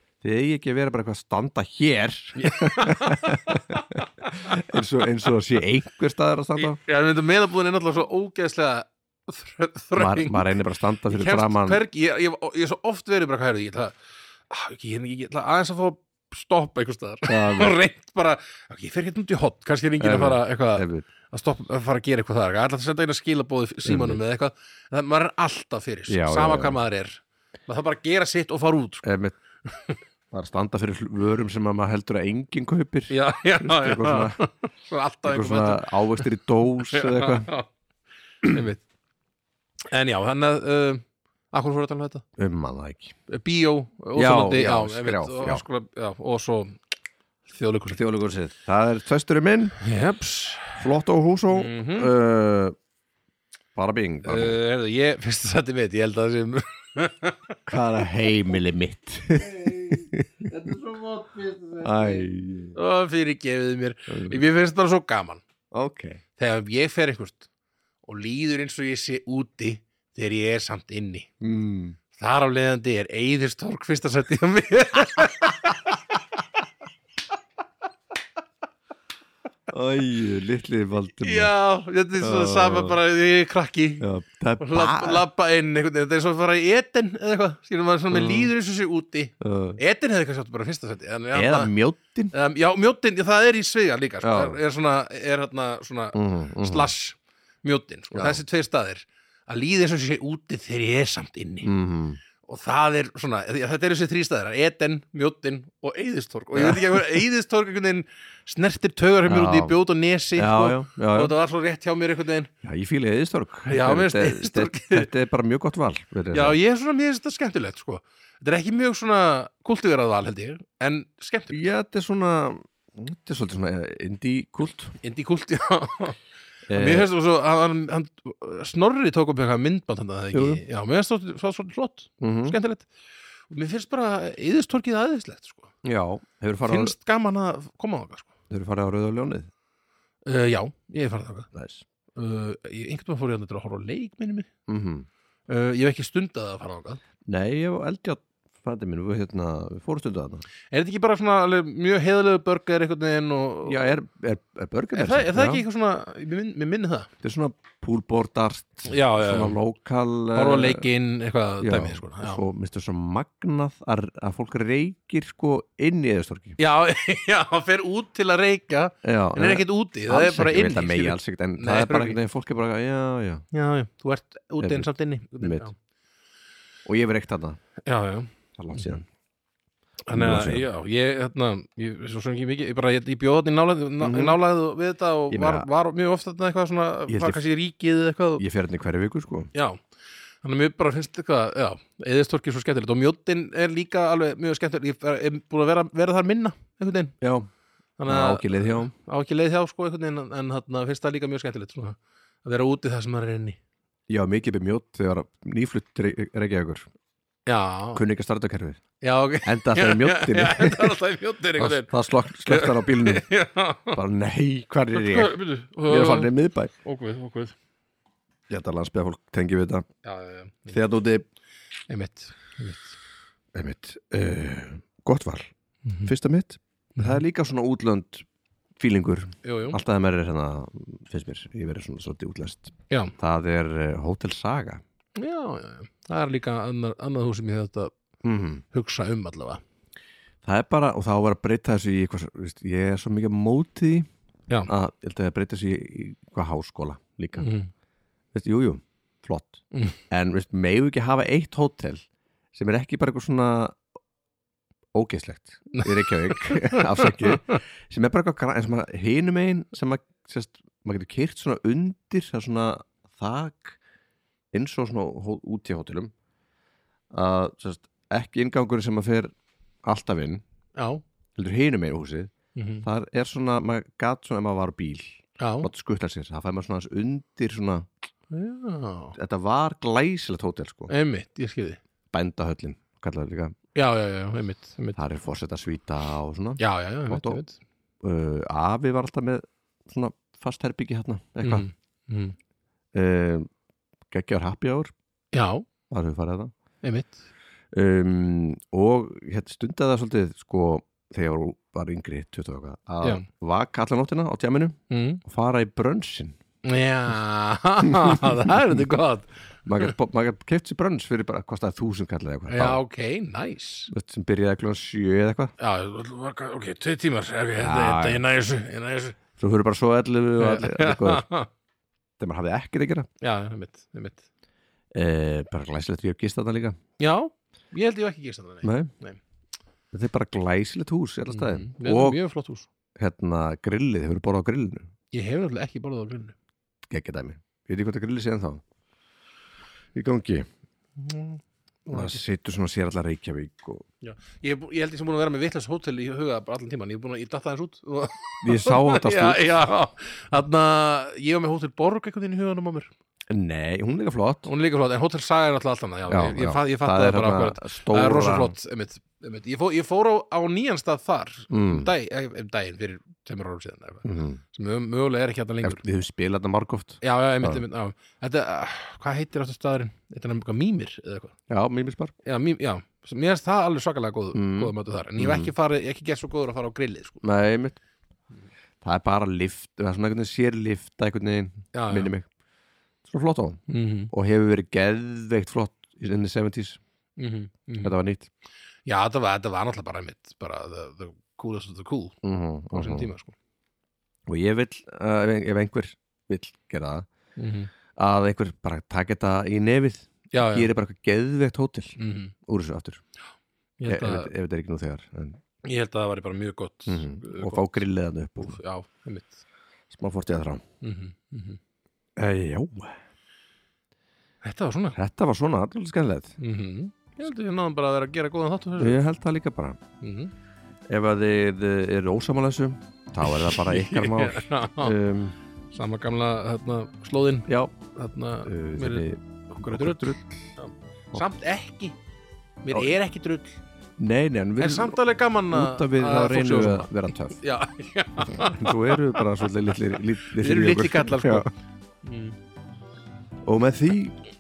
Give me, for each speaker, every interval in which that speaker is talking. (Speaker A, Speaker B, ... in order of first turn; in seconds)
Speaker A: 0.2-6.8, 10.0-11.8, 17.3-17.8, 20.0-21.1, 23.9-24.2, 26.1-26.8, 29.0-29.4, 30.3-34.4, 35.2-37.5, 42.4-43.1, 44.2-45.6, 47.9-49.8, 50.8-52.8, 53.8-54.6, 57.7-60.5, 61.8-62.8, 64.1-64.4, 65.7-66.2, 71.4-72.0, 79.7-81.5, 82.2-83.0, 84.0-85.2, 88.1-88.5, 89.4-89.8, 91.3-92.3, 94.2-94.6, 96.2-96.9, 98.1-98.4, 101.6-102.2, 106.5-107.2, 109.3-109.8, 110.4-111.3, 112.6-116.6, 121.5-125.0, 126.7-127.1, 130.3-130.6, 132.2-132.6, 135.8-136.9, 138.5-139.5, 141.5-141.8, 144.7-145.1, 147.3-150.4, 153.7-155.7, 157.2-160.9, 161.6-166.6, 169.0-173.4, 174.6-174.9, 175.4-175.7, 176.8-177.6, 178.6-179.1, 180.1-180.7, 184.0-184.4, 185.3-185.7, 187.1-187.4, 188.4-189.5, 197.2-197.5, 198.1-198.9, 204.1-206.9, 207.9-208.8, 209.4-211.0, 211.6-213.3, 213.9-215.3, 215.9-216.7, 218.5-219.9, 220.7-221.2, 223.5-225.5, 226.0-228.2, 228.8-234.8, 238.2-238.6, 240.4-244.1, 244.7-247.5, 248.3-253.8, 254.9-263.8, 264.5-266.1, 267.1-269.3, 269.9-270.4, 271.4-272.3, 272.8-277.9, 279.1-280.9, 282.1-283.5, 285.0-287.4, 288.0-291.7, 292.9-293.5, 294.1-294.9, 295.9-296.5, 297.7-306.4, 307.9-308.6, 309.7-312.8, 313.9-315.5, 317.6-318.2, 319.4-321.2, 322.2-323.1, 324.9-326.8, 328.6-328.9, 329.9-332.2, 333.0-334.9, 336.9-338.6, 339.9-340.5, 341.9-343.9, 348.4-349.5, 353.3-354.5, 356.1-358.6, 361.5-361.9, 364.1-364.4, 365.6-367.6, 371.5-372.1, 374.3-375.5, 377.2-377.8, 378.8-382.3, 383.1-386.8, 387.8-388.3, 392.2-393.1, 394.3-397.1, 397.9-401.9, 402.5-403.0, 403.9-405.4, 406.9-408.6, 409.9-410.6, 412.2-412.9, 415.0-416.3, 418.8-419.8, 420.9-425.4, 427.5-427.7, 428.4-430.5, 434.0-435.0, 435.5-437.4, 438.2-441.5, 443.5-444.2
Speaker B: 2.4-4.8, 6.6-10.6, 11.1-14.0, 14.5-29.1, 29.7-30.0, 33.1-36.2, 36.9-37.7, 38.4-38.8, 39.9-42.2, 43.3-46.8, 47.5-48.0, 49.8-50.8, 51.5-52.1, 54.2-57.6, 59.4-65.4, 66.4-67.5, 68.0-71.3, 72.1-75.8, 81.1-84.1, 84.6-91.7, 92.3-101.7, 102.4-112.5, 113.7-115.1, 116.3-121.6, 125.0-126.2, 126.7-132.9, 133.5-135.7, 136.6-138.3, 140.3-141.5, 142.2-144.5, 145.5-147.0, 150.7-153.9, 154.9-157.1, 158.9-159.6, 160.3-162.4, 166.6-172.2, 173.5-175.8, 177.8-179.0, 180.1-188.4, 189.5-189.8, 190.4-197.2, 198.0-203.6, 207.5-208.0, 209.0-211.9, 212.5-214.0, 214.9-217.6, 220.0-220.8, 221.9-223.0, 227.0-227.2, 229.4-229.8, 235.2-237.9, 238.7-239.6, 247.4-247.7, 249.7-250.0, 255.7-257.6, 270.8-271.0, 272.6-272.9, 275.4-275.7, 278.3-279.2, 280.9-281.8, 283.8-285.0, 286.6-287.6, 291.4-292.4, 295.3-295.7, 296.8-297.2, 304.9-305.2, 306.6-309.9, 312.5-313.9, 315.6-319.2, 320.4-321.5, 323.2-324.3, 327.0-329.2, 331.3-332.7, 335.1-336.4, 341.0-342.2, 344.0-352.9, 354.5-365.8, 367.0-371.4, 372.2-377.2, 381.7-382.1, 383.7-384.1, 387.2-388.0, 388.9-392.2, 392.7-393.4, 397.4-397.7, 400.3-400.7, 402.0-402.3, 403.8-404.3, 405.6-407.8, 408.4-409.4, 410.8-411.6, 414.4-415.0, 416.4-419.0, 420.0-420.3, 423.2-424.9, 425.7-432.0, 432.6-433.6, 434.6-441.5, 442.0-442.4